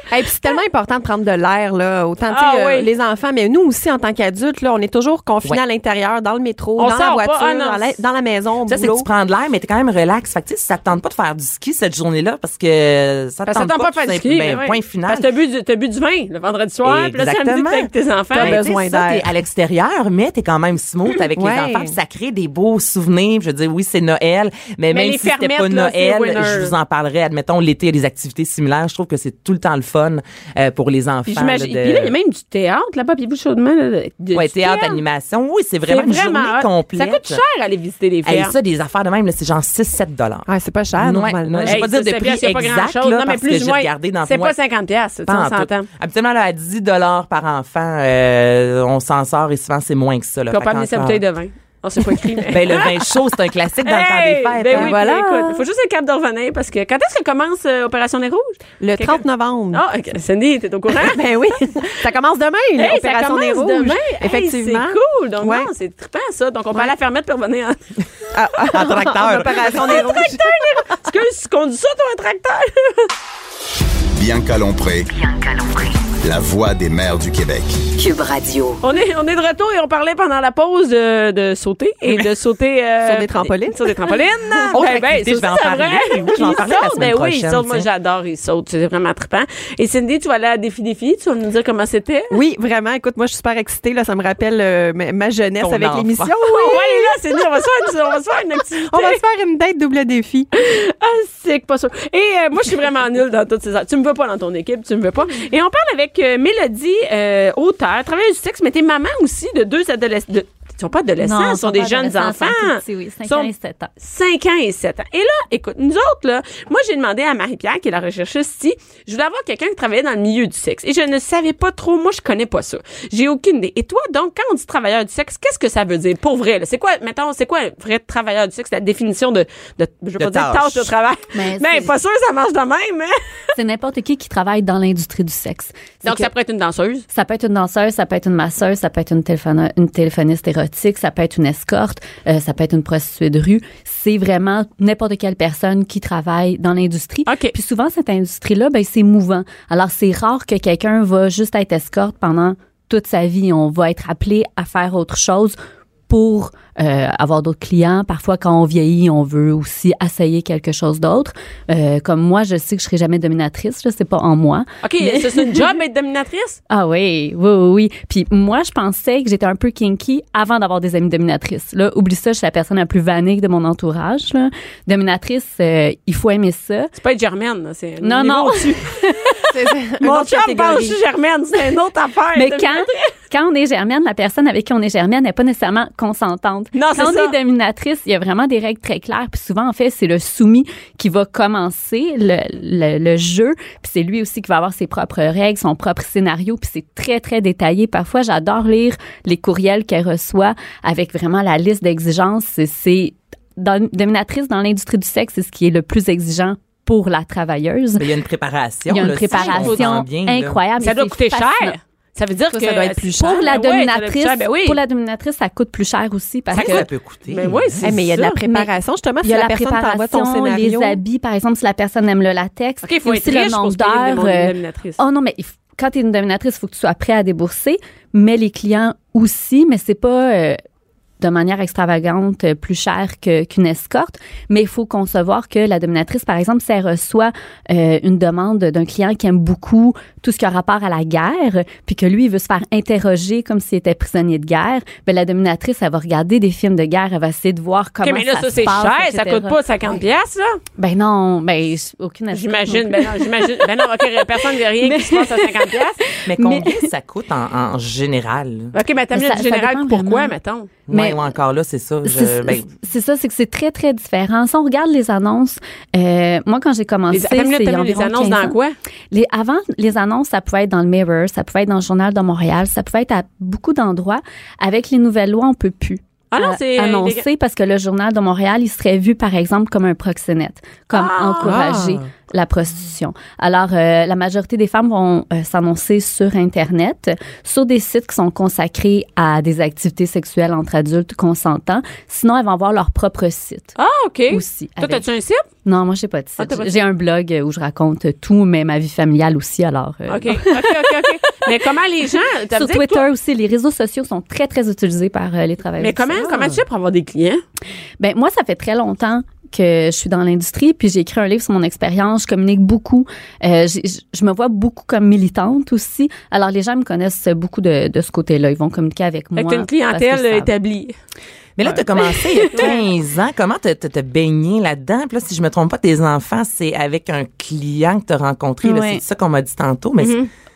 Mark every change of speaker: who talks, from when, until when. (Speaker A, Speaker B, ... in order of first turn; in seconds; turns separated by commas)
Speaker A: 0.1-9.1, Speaker B: 2.3-2.9, Speaker B: 6.8-8.0, Speaker C: 8.7-15.3, Speaker B: 13.5-18.6, Speaker C: 16.8-32.1, Speaker A: 18.3-19.3, Speaker A: 21.4-21.9, Speaker B: 24.9-26.7, Speaker B: 31.3-35.0, Speaker C: 34.3-37.4, Speaker B: 35.9-38.5, Speaker C: 38.2-44.5, Speaker A: 40.5-41.8, Speaker B: 41.6-45.9, Speaker C: 45.2-51.2, Speaker B: 50.5-53.0, Speaker C: 52.5-55.0, Speaker B: 53.8-61.2, Speaker A: 54.7-55.6, Speaker A: 58.8-59.8, Speaker A: 60.9-65.7, Speaker B: 62.8-67.8, Speaker A: 68.3-70.7, Speaker C: 68.7-70.1, Speaker B: 69.6-73.1, Speaker D: 74.1-75.1, Speaker E: 75.1-76.2, Speaker D: 76.2-77.9, Speaker E: 77.9-78.8, Speaker B: 78.8-92.3, Speaker A: 83.0-83.9, Speaker C: 84.7-87.9, Speaker A: 92.3-97.2, Speaker C: 95.6-96.3, Speaker B: 96.5-99.2, Speaker A: 98.9-100.5, Speaker B: 100.5-133.1, Speaker F: 111.2-113.9, Speaker C: 130.2-130.9, Speaker F: 131.3-131.9, Speaker F: 133.6-136.3, Speaker B: 136.0-137.1, Speaker F: 137.1-155.6, Speaker B: 147.2-147.5, Speaker F: 156.1-165.7, Speaker B: 164.8-166.6, Speaker F: 166.7-176.9, Speaker B: 176.9-179.4, Speaker F: 178.0-179.4, Speaker A: 179.5-181.0, Speaker B: 180.0-183.1, Speaker F: 182.3-208.1, Speaker B: 186.7-187.3, Speaker C: 208.0-210.6, Speaker F: 208.9-211.8, Speaker B: 209.3-209.8, Speaker B: 210.8-214.8, Speaker F: 212.5-216.8, Speaker B: 216.5-218.4, Speaker C: 216.5-217.8, Speaker A: 217.8-221.0, Speaker F: 219.2-230.6, Speaker B: 222.8-225.0, Speaker F: 231.2-249.6, Speaker B: 248.0-250.6, Speaker F: 250.8-254.0, Speaker B: 252.3-256.0, Speaker F: 254.8-256.9, Speaker C: 256.2-258.7, Speaker B: 258.7-260.7, Speaker F: 259.1-260.3, Speaker C: 260.9-262.7, Speaker F: 260.9-261.2, Speaker F: 262.0-268.6, Speaker B: 267.1-268.8, Speaker F: 269.1-293.7, Speaker B: 276.3-277.2, Speaker B: 280.9-281.6, Speaker A: 281.4-282.0, Speaker B: 293.8-295.4, Speaker F: 294.3-295.0, Speaker F: 295.6-301.2, Speaker B: 296.4-296.8, Speaker B: 300.1-303.0, Speaker F: 302.5-306.5, Speaker B: 305.8-307.4, Speaker F: 308.0-320.5, Speaker B: 319.4-320.9, Speaker C: 321.6-330.2, Speaker F: 328.6-329.0, Speaker B: 330.0-330.3